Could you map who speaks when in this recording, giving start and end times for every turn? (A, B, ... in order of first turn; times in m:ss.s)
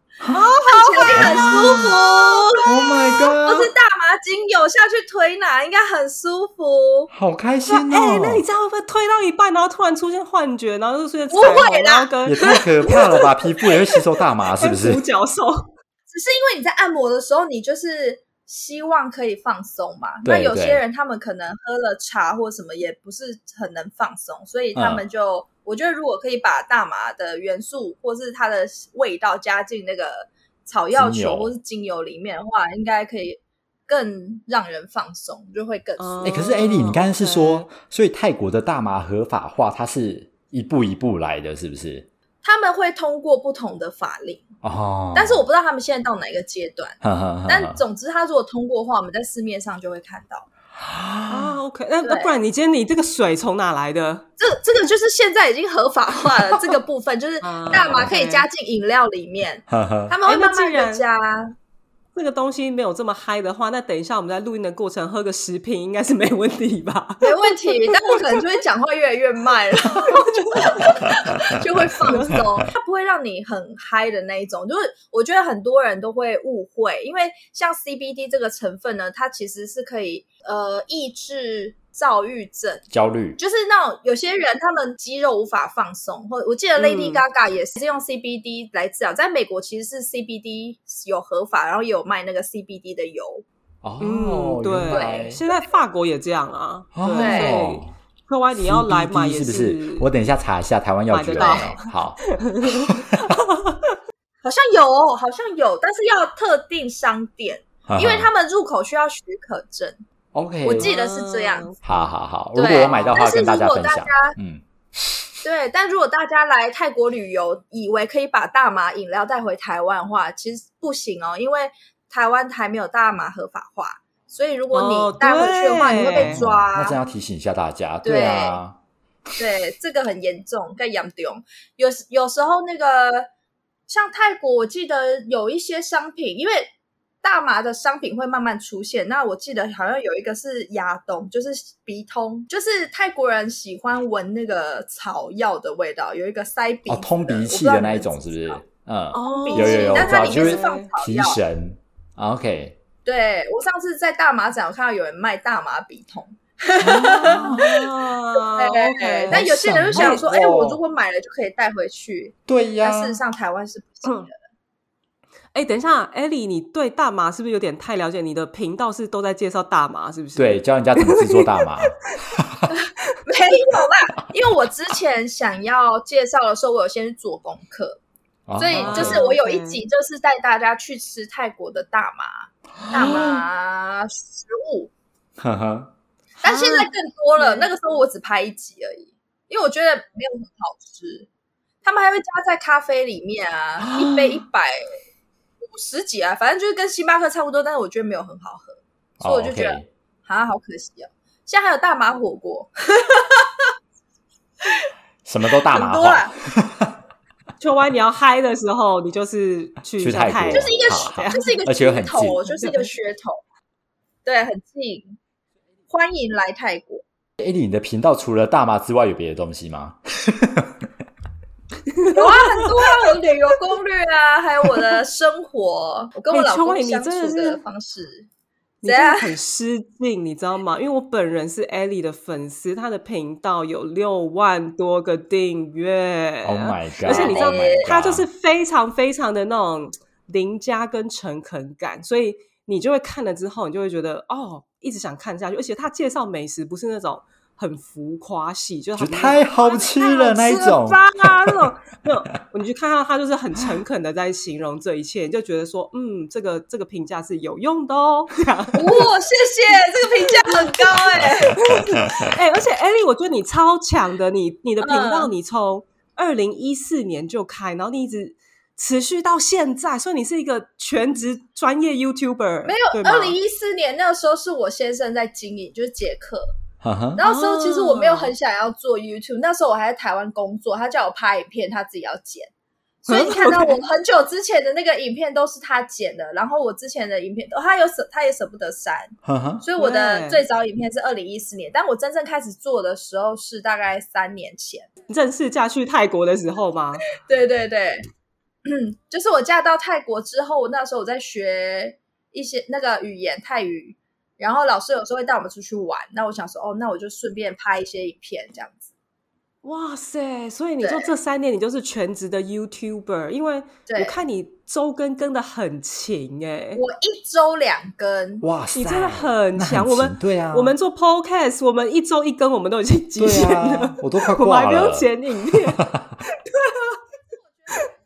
0:00.3-0:01.5 A
0:00.5-0:07.1 B
0:01.2-0:02.0 C
0:02.5-0:03.7 C
0:07.1-0:08.4 C
0:07.7-0:15.7 A
0:11.3-0:13.2 B
0:12.2-0:15.0 C
0:16.1-0:36.4 B
0:20.2-0:20.8 C
0:24.7-0:25.0 C
0:30.9-0:31.5 C
0:36.0-0:37.6 A
0:36.2-0:42.1 C
0:42.4-0:44.5 B
0:44.6-0:45.4 C
0:45.1-0:50.5 B
0:47.0-0:47.8 C
0:50.8-0:51.6 C
0:51.3-0:54.3 A
0:52.0-0:52.3 B
0:54.4-1:01.5 B
0:57.4-0:58.5 A
0:57.7-0:58.1 C
0:59.7-1:00.1 C
1:00.2-1:01.0 A
1:02.1-1:08.4 A
1:07.2-1:22.8 B
1:10.0-1:10.8 A
1:12.1-1:12.5 A
1:22.9-1:23.4 C
1:23.4-1:33.4 B
1:26.8-1:27.2 A
1:33.8-1:35.4 C
1:34.0-1:40.1 A
1:34.9-1:35.7 B
1:37.0-1:37.9 C
1:37.1-1:37.6 B
1:38.6-1:42.9 C
1:41.1-1:44.0 A
1:41.4-1:41.7 B
1:44.4-1:50.0 B
1:47.8-1:48.3 C
1:50.3-1:50.9 C
1:50.6-1:51.7 B
1:50.8-1:51.8 A
1:51.8-1:55.2 C
1:52.5-1:54.4 B
1:52.7-1:53.2 A
1:55.4-2:07.0 B
2:04.7-2:06.4 A
2:06.2-2:08.8 C
2:08.0-2:08.6 B
2:09.4-2:13.3 B
2:13.9-2:16.7 B
2:17.2-2:28.6 B
2:26.9-2:32.8 C
2:29.1-2:30.9 A
2:29.3-2:31.4 B
2:33.0-2:37.7 B
2:36.8-2:37.8 C
2:37.0-2:40.2 A
2:38.3-2:44.4 B
2:39.3-2:40.8 C
2:42.5-2:43.2 C
2:45.5-2:52.2 A
2:50.4-2:52.6 C
2:52.7-2:58.0 B
2:58.5-2:59.2 C
2:58.6-3:04.9 B
2:58.8-2:59.8 A
3:02.9-3:03.4 A
3:02.9-3:03.3 C
3:05.4-3:05.9 C
3:06.4-3:07.7 A
3:06.4-3:11.3 B
3:11.8-3:14.9 B
3:15.6-3:23.7 B
3:19.2-3:19.9 C
3:25.2-3:27.0 C
3:25.7-3:26.3 B
3:27.6-3:31.6 A
3:30.0-3:32.4 C
3:30.5-3:33.4 B
3:32.4-3:32.9 A
3:34.2-3:35.2 B
3:35.9-3:37.0 B
3:37.4-3:40.9 C
3:41.9-3:42.9 A
3:42.1-3:48.3 B
3:46.3-3:47.6 A
3:48.8-4:19.1 A
3:48.8-3:49.3 B
3:56.4-3:58.3 C
3:57.0-3:57.8 B
4:09.0-4:11.7 C
4:09.6-4:10.8 B
4:18.7-4:21.6 B
4:20.2-4:21.0 A
4:21.2-4:22.2 C
4:21.6-4:33.4 A
4:24.8-4:25.3 B
4:32.6-4:36.5 B
4:36.8-4:37.2 C
4:37.2-4:42.5 B
4:37.2-4:38.3 A
4:43.0-4:54.9 B
4:43.1-4:43.8 A
4:49.2-4:49.6 C
4:49.8-4:50.4 A
4:55.1-4:57.0 A
4:57.2-4:58.0 B
4:58.6-5:08.9 B
5:09.6-5:16.8 A
5:10.8-5:11.1 B
5:13.9-5:14.2 B
5:16.8-5:18.4 B
5:18.4-5:20.7 C
5:18.7-5:27.0 A
5:23.2-5:26.2 C